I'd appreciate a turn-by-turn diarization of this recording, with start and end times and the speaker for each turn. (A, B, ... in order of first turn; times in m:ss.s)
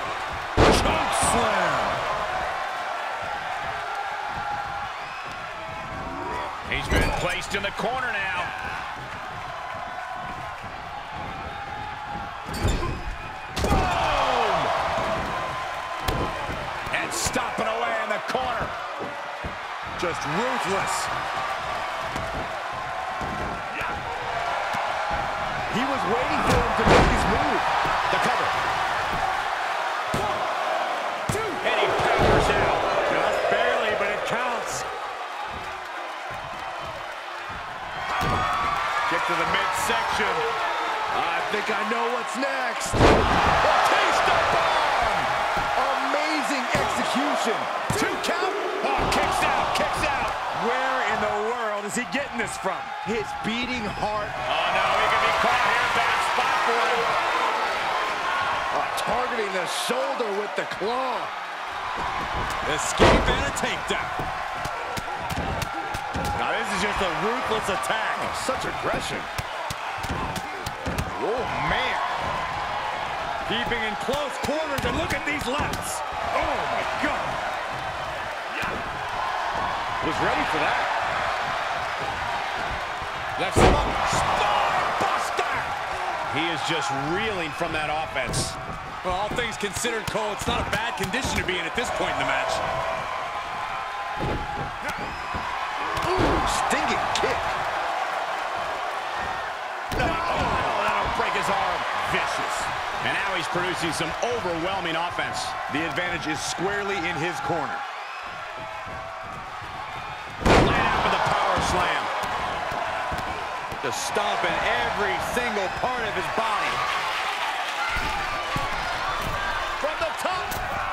0:00.7-0:02.0 A
0:06.6-0:08.5 B
0:13.6-0:14.7 B
0:16.9-0:18.8 B
0:20.0-0:21.1 A
0:25.7-0:27.7 C
0:28.1-0:28.6 B
0:31.3-0:31.6 A
0:31.6-0:32.9 B
0:33.1-0:34.8 A
0:39.1-0:40.5 A
0:41.1-0:48.0 C
0:47.9-0:50.4 B
0:50.5-0:52.9 A
0:53.0-0:54.4 C
0:54.4-0:57.1 B
0:58.7-1:01.3 C
1:02.6-1:04.2 A
1:06.4-1:08.3 A
1:08.2-1:09.3 C
1:11.2-1:12.1 A
1:13.4-1:17.4 A
1:23.4-1:25.7 A
1:26.3-1:28.6 B
1:29.0-1:32.6 A
1:36.0-1:37.6 C
1:39.9-1:45.6 B
1:45.7-1:47.8 A
1:50.5-1:52.1 B
1:53.8-1:56.8 A
1:59.8-2:00.4 C
1:59.8-2:00.5 B